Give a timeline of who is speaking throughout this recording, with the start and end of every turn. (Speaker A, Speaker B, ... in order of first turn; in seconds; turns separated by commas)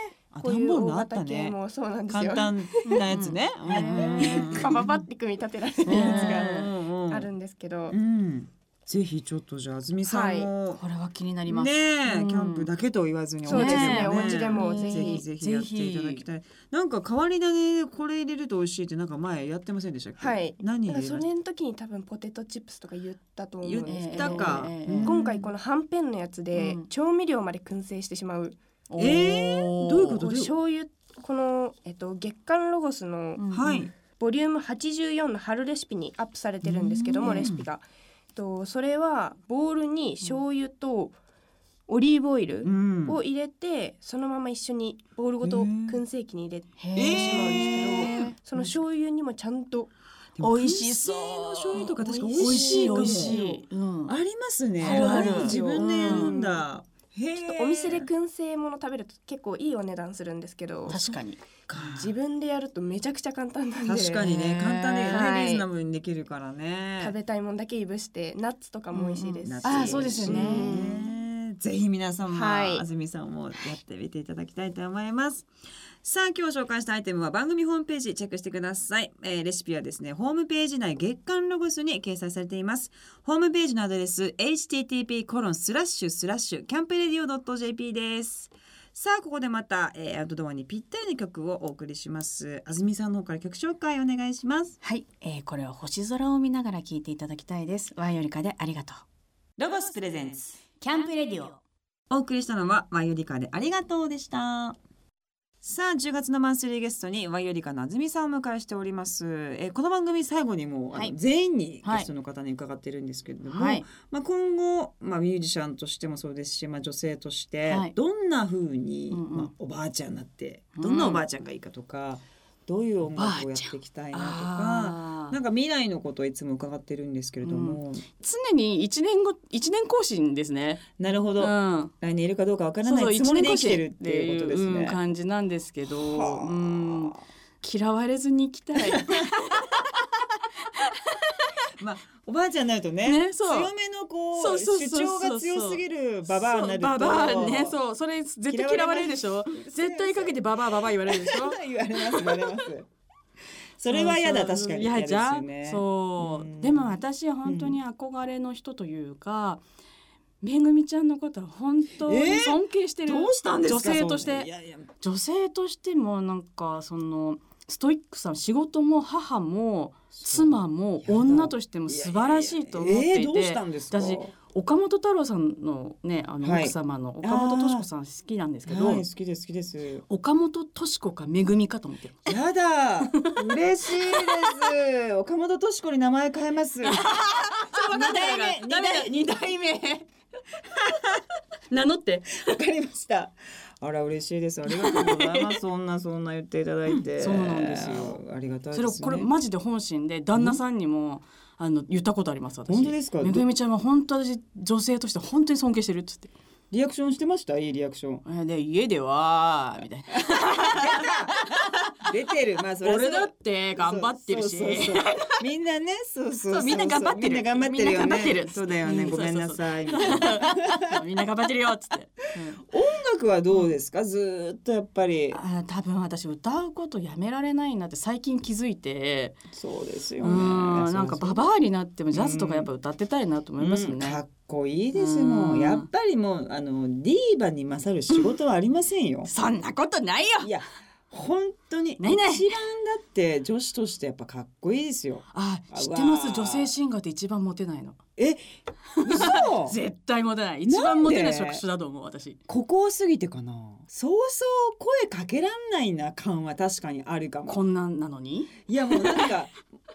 Speaker A: 0.3-1.6, Speaker B: 0.4-3.0, Speaker A: 2.1-5.0, Speaker C: 2.8-4.8, Speaker B: 3.7-8.0, Speaker A: 5.8-7.3, Speaker C: 5.9-6.7, Speaker A: 7.9-10.8, Speaker B: 10.0-10.5, Speaker C: 10.8-12.7, Speaker A: 11.5-21.3, Speaker B: 13.5-15.2, Speaker C: 13.5-16.2, Speaker B: 20.2-28.6, Speaker A: 23.6-25.4, Speaker C: 23.9-25.4, Speaker C: 26.5-26.8, Speaker C: 28.9-30.2, Speaker A: 29.0-30.5, Speaker B: 30.2-33.4, Speaker C: 33.4-33.9, Speaker A: 33.5-33.9, Speaker B: 34.1-41.2, Speaker A: 36.6-37.6, Speaker B: 41.9-49.9, Speaker A: 42.6-43.2, Speaker A: 45.4-46.0, Speaker C: 46.8-48.4, Speaker A: 47.0-48.6, Speaker A: 50.4-53.4, Speaker C: 50.4-54.1, Speaker B: 51.7-53.6, Speaker A: 54.1-58.1, Speaker C: 54.8-56.5, Speaker B: 54.8-56.5, Speaker B: 57.4-61.2, Speaker C: 60.9-61.4, Speaker A: 61.7-62.1, Speaker B: 61.7-65.7, Speaker A: 63.8-67.1, Speaker B: 67.0-71.1, Speaker C: 68.9-70.8, Speaker A: 69.5-75.5, Speaker B: 72.3-72.8, Speaker A: 76.0-94.8, Speaker C: 94.8-99.0, Speaker A: 99.6-100.6, Speaker C: 100.8-101.6, Speaker A: 102.1-104.8, Speaker A: 105.6-128.1, Speaker C: 113.5-113.9, Speaker C: 117.7-118.0, Speaker C: 119.1-119.5, Speaker C: 120.8-121.2, Speaker C: 123.1-125.4, Speaker C: 127.4-130.8, Speaker A: 131.0-135.0, Speaker C: 131.4-131.9, Speaker C: 132.8-139.8, Speaker A: 135.9-137.2, Speaker A: 138.8-139.6, Speaker C: 140.8-141.5, Speaker A: 141.8-147.8, Speaker C: 143.1-143.7, Speaker C: 144.3-152.6, Speaker A: 148.5-152.9, Speaker A: 153.8-157.8, Speaker C: 153.9-159.6, Speaker C: 160.4-164.5, Speaker A: 162.0-164.9, Speaker C: 165.0-179.1, Speaker A: 170.2-174.3, Speaker A: 176.4-177.9, Speaker A: 178.7-180.1, Speaker C: 180.1-182.3, Speaker A: 182.3-187.1, Speaker C: 183.1-183.3, Speaker C: 184.0-184.6, Speaker C: 186.8-190.0, Speaker A: 187.7-189.6, Speaker C: 191.7-192.5, Speaker A: 192.3-199.3, Speaker C: 194.7-195.6, Speaker C: 196.9-198.2, Speaker C: 198.7-206.3, Speaker A: 200.3-200.6, Speaker A: 202.7-203.5, Speaker A: 206.7-208.2, Speaker C: 208.2-211.9, Speaker A: 210.3-211.4, Speaker A: 212.0-221.0, Speaker C: 212.8-215.4, Speaker C: 216.5-222.6, Speaker A: 222.6-225.4, Speaker C: 225.3-229.4, Speaker A: 229.5-231.4, Speaker C: 230.2-234.2, Speaker A: 232.1-232.7, Speaker A: 233.6-239.3, Speaker C: 234.9-235.9, Speaker C: 239.3-240.5, Speaker A: 240.4-246.7, Speaker C: 242.0-242.6, Speaker C: 245.3-248.0, Speaker A: 248.2-248.4, Speaker A: 249.0-249.8, Speaker C: 249.0-252.4, Speaker A: 250.7-251.6, Speaker A: 252.5-257.6, Speaker C: 257.5-259.3, Speaker A: 258.7-259.6